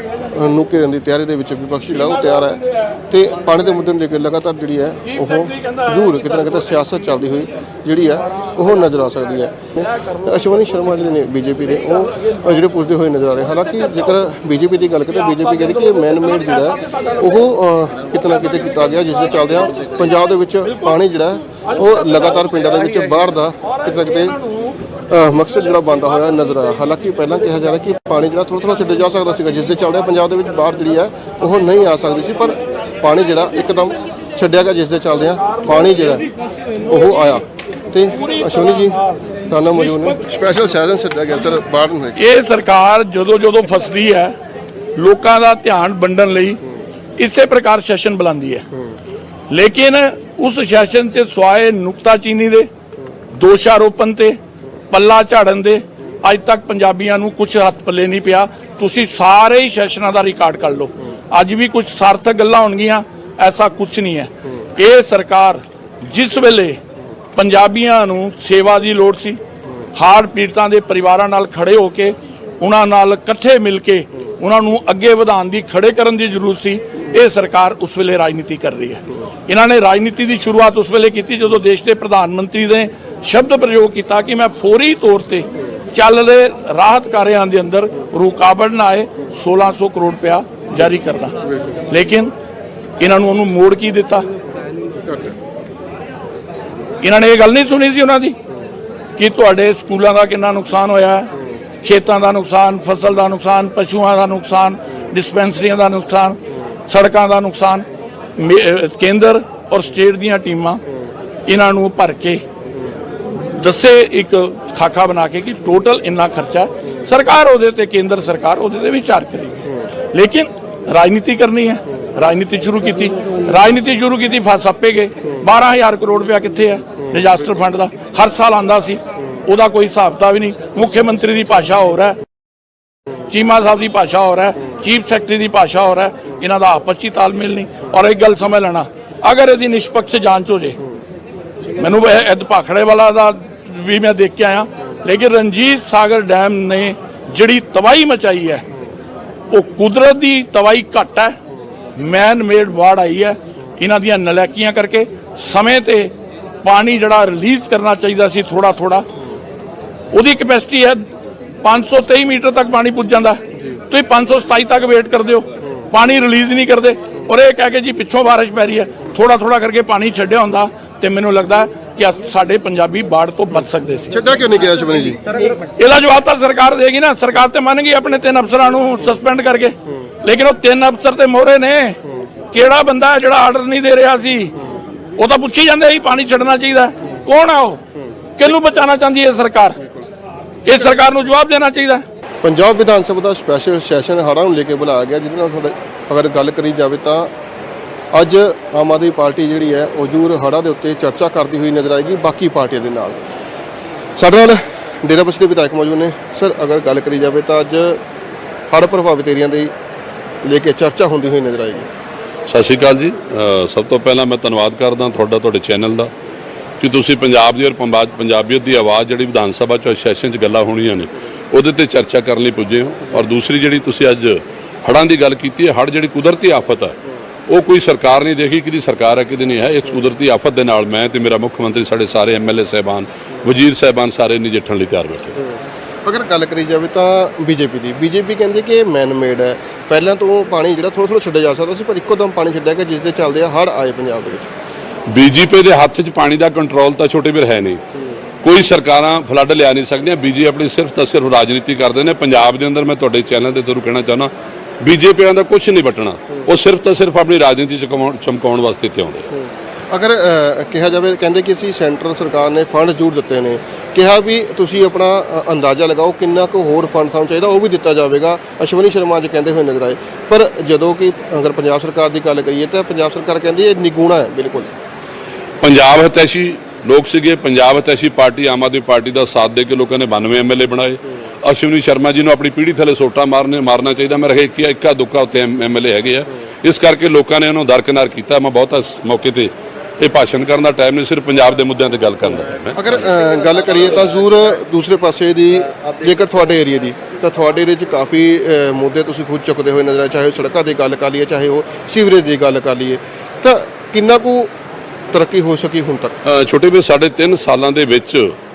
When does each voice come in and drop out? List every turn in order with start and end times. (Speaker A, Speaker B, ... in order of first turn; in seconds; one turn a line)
Speaker A: 0.3-24.4
Speaker A: 25.1-36.3
Speaker A: 36.8-42.2
Speaker B: 42.2-44.3
Speaker B: 45.0-46.6
Speaker B: 47.2-48.6
Speaker B: 49.5-52.7
Speaker B: 53.4-54.4
Speaker B: 54.9-66.8
Speaker B: 67.4-69.4
Speaker B: 70.0-91.4
Speaker B: 91.9-92.3
Speaker B: 93.0-94.3
Speaker A: 95.1-95.3
Speaker B: 97.0-98.4
Speaker B: 99.2-101.3
Speaker B: 101.8-107.9
Speaker B: 108.4-110.8
Speaker B: 111.5-112.4
Speaker B: 113.6-132.2
Speaker B: 133.3-140.8
Speaker B: 141.8-148.6
Speaker B: 149.5-151.3
Speaker B: 152.0-156.1
Speaker B: 156.6-159.1
Speaker B: 160.1-161.0
Speaker B: 161.6-174.1
Speaker A: 174.1-175.2
Speaker B: 175.8-179.7
Speaker B: 180.2-182.0
Speaker B: 182.5-184.5
Speaker B: 185.2-187.8
Speaker B: 188.4-189.8
Speaker B: 190.7-192.0
Speaker A: 192.4-197.3
Speaker A: 198.1-203.2
Speaker A: 204.2-208.0
Speaker A: 208.7-209.7
Speaker A: 210.4-211.9
Speaker C: 212.5-216.1
Speaker C: 216.8-226.9
Speaker C: 227.5-235.4
Speaker A: 236.1-244.5
Speaker C: 245.1-247.8
Speaker C: 248.4-254.3
Speaker C: 254.8-259.3
Speaker A: 259.9-274.7
Speaker C: 275.6-292.8
Speaker A: 292.8-304.5
Speaker A: 305.1-306.2
Speaker C: 306.2-308.3